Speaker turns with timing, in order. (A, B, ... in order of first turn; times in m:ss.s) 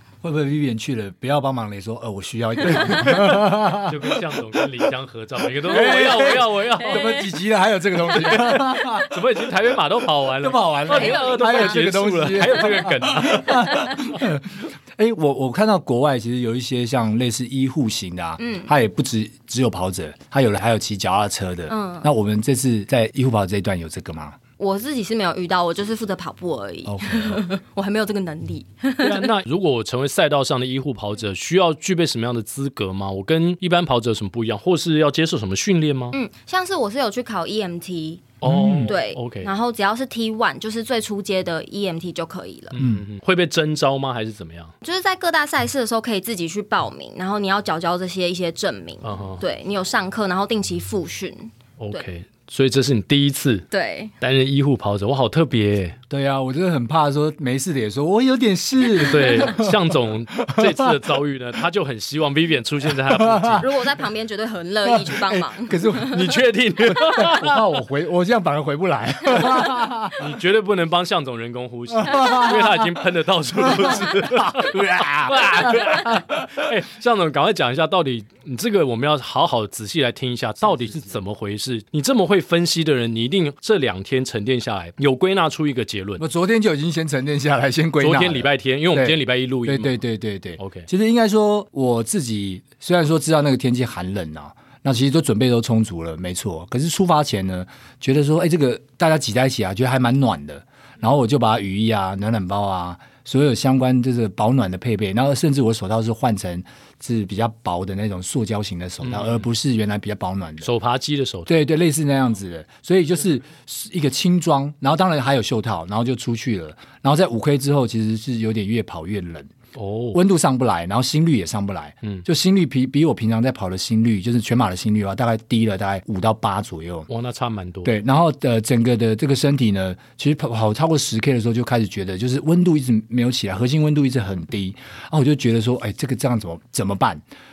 0:00.2-0:04.1 A
0:02.6-0:07.2 B
0:05.6-0:09.1 A
0:06.8-0:07.3 C
0:08.1-0:09.1 C
0:08.2-0:14.2 B
0:10.4-0:24.4 A
0:10.9-0:11.8 C
0:12.4-0:12.7 C
0:18.4-0:18.7 C
0:21.7-0:22.1 C
0:24.6-0:29.3 C
0:26.8-0:27.4 A
0:29.0-0:36.1 B
0:36.1-0:38.3 C
0:38.4-0:39.5 B
0:38.4-0:38.9 A
0:38.8-0:42.7 C
0:42.7-0:44.7 B
0:42.8-0:43.0 A
0:44.8-0:52.0 C
0:49.0-0:49.4 B
0:51.8-0:53.6 B
0:53.7-0:54.1 C
0:54.2-0:56.0 B
0:56.1-0:59.8 A
0:59.0-1:03.6 B
1:00.4-1:00.9 A
1:02.9-1:03.6 A
1:03.6-1:06.4 C
1:04.9-1:06.3 A
1:06.0-1:07.6 B
1:06.9-1:10.1 A
1:10.1-1:26.2 B
1:12.0-1:12.8 A
1:13.6-1:16.5 A
1:20.7-1:21.1 A
1:26.2-1:50.7 A
1:28.0-1:29.9 B
1:30.6-1:30.9 B
1:49.0-1:49.5 B
1:50.6-1:51.5 B
1:51.5-1:59.5 A
1:59.7-2:00.2 B
2:00.1-2:07.1 A
2:07.1-2:08.0 B
2:07.8-2:17.2 A